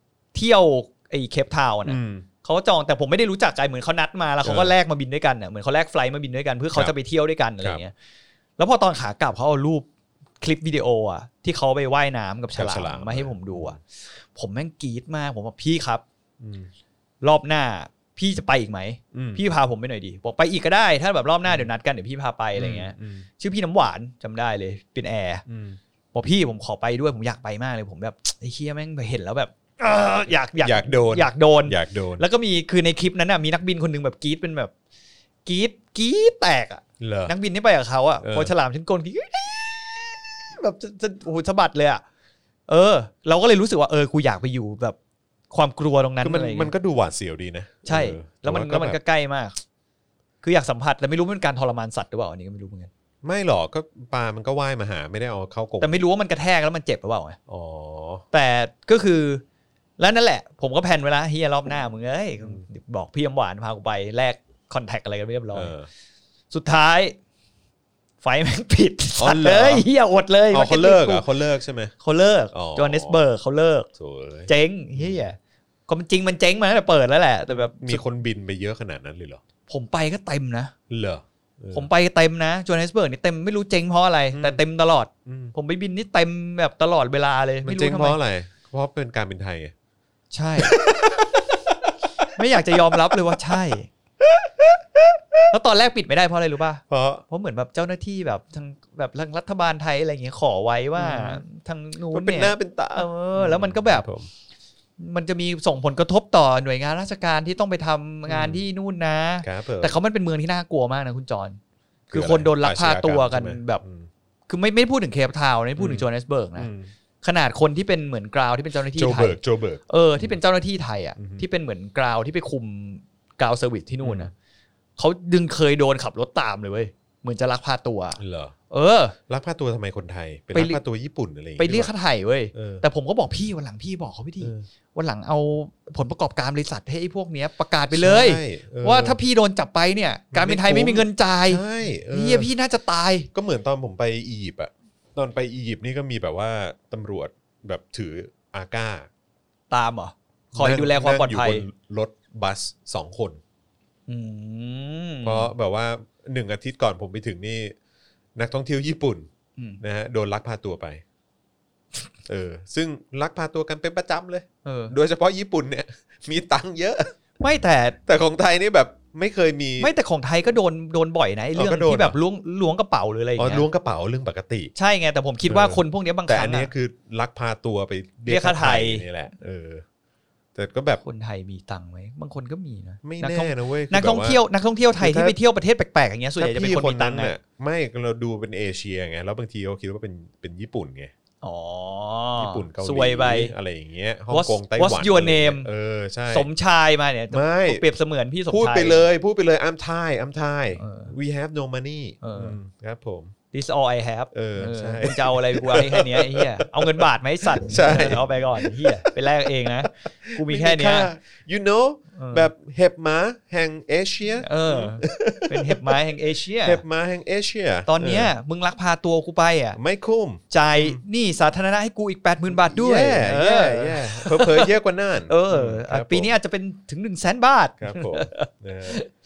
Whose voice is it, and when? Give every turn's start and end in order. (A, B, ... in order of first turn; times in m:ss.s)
0:00.3-0:07.9 A
0:01.9-0:02.3 B
0:04.4-0:04.8 B
0:08.6-0:09.9 A
0:10.4-0:16.0 A
0:12.5-0:13.8 B
0:16.4-0:16.7 B
0:17.2-0:25.4 A
0:19.1-0:19.4 B
0:22.6-0:23.3 B
0:25.5-0:25.8 B
0:26.1-0:34.7 A
0:30.6-0:32.2 B
0:35.4-0:42.0 A
0:37.0-0:37.3 B
0:38.2-0:38.5 B
0:42.7-0:45.0 A
0:45.5-0:46.7 A
0:46.2-0:49.0 B
0:47.9-0:49.6 A
0:50.4-0:52.9 A
0:53.2-0:56.0 B
0:55.8-0:57.4 A
0:57.5-0:58.2 B
0:58.3-0:59.4 A
1:00.0-1:05.7 A
1:05.5-1:05.9 B
1:06.5-1:07.2 A
1:08.2-1:11.2 A
1:09.2-1:09.9 B
1:10.5-1:12.0 B
1:12.0-1:13.9 A
1:12.5-1:13.2 B
1:14.0-1:15.2 B
1:14.5-1:15.4 A
1:15.9-1:18.0 A
1:17.5-1:19.4 B
1:19.7-1:20.7 A
1:20.9-1:21.9 B
1:21.7-1:28.2 A
1:24.3-1:24.6 B
1:25.3-1:25.5 B
1:27.6-1:29.7 B
1:30.3-1:30.9 A
1:30.6-1:32.2 B
1:32.3-1:33.9 A
1:34.2-1:35.4 B
1:35.5-1:44.1 A
1:36.9-1:37.2 B
1:41.0-1:41.4 B
1:42.1-1:44.3 B
1:45.0-1:51.6 A
1:48.3-1:48.6 B
1:49.4-1:50.0 B
1:52.1-1:54.1 B
1:52.1-1:53.8 A
1:54.5-1:56.7 A
1:55.8-1:56.9 B
1:57.2-2:04.3 A
1:59.0-2:00.4 B
2:01.2-2:01.4 B
2:04.0-2:04.3 B
2:05.0-2:09.2 A
2:08.2-2:08.6 B
2:09.3-2:11.9 B
2:10.5-2:10.8 A
2:11.6-2:23.3 A
2:12.5-2:12.8 B
2:14.4-2:14.7 B
2:17.9-2:19.2 B
2:20.3-2:22.5 B
2:23.3-2:29.1 B
2:29.7-2:31.6 A
2:30.5-2:33.4 B
2:34.1-2:35.5 A
2:35.2-2:37.7 B
2:38.4-2:39.3 B
2:39.8-2:41.0 B
2:42.3-2:47.2 B
2:44.6-2:45.0 A
2:47.4-2:48.0 A
2:48.1-2:49.9 B
2:49.8-2:53.7 A
2:51.6-2:52.2 B
2:53.4-2:54.7 B
2:54.8-2:56.7 A
2:55.5-2:59.8 B
2:58.3-2:59.0 A
3:00.6-3:01.0 B
3:01.0-3:07.3 A
3:03.0-3:04.4 B
3:05.0-3:05.4 B
3:06.4-3:11.1 B
3:11.4-3:13.5 A
3:12.4-3:16.5 B
3:14.3-3:15.7 A
3:16.3-3:19.1 A
3:17.3-3:17.8 B
3:18.5-3:23.3 B
3:20.8-3:21.1 A
3:22.2-3:22.6 A
3:23.5-3:31.1 A
3:24.3-3:29.1 B
3:29.9-3:36.0 B
3:32.2-3:32.5 A
3:34.4-3:36.8 A
3:36.6-3:38.3 B
3:37.9-3:39.8 A
3:39.8-3:41.0 B
3:40.5-3:44.7 A
3:42.5-3:46.3 B
3:45.3-3:49.1 A
3:47.8-3:49.0 B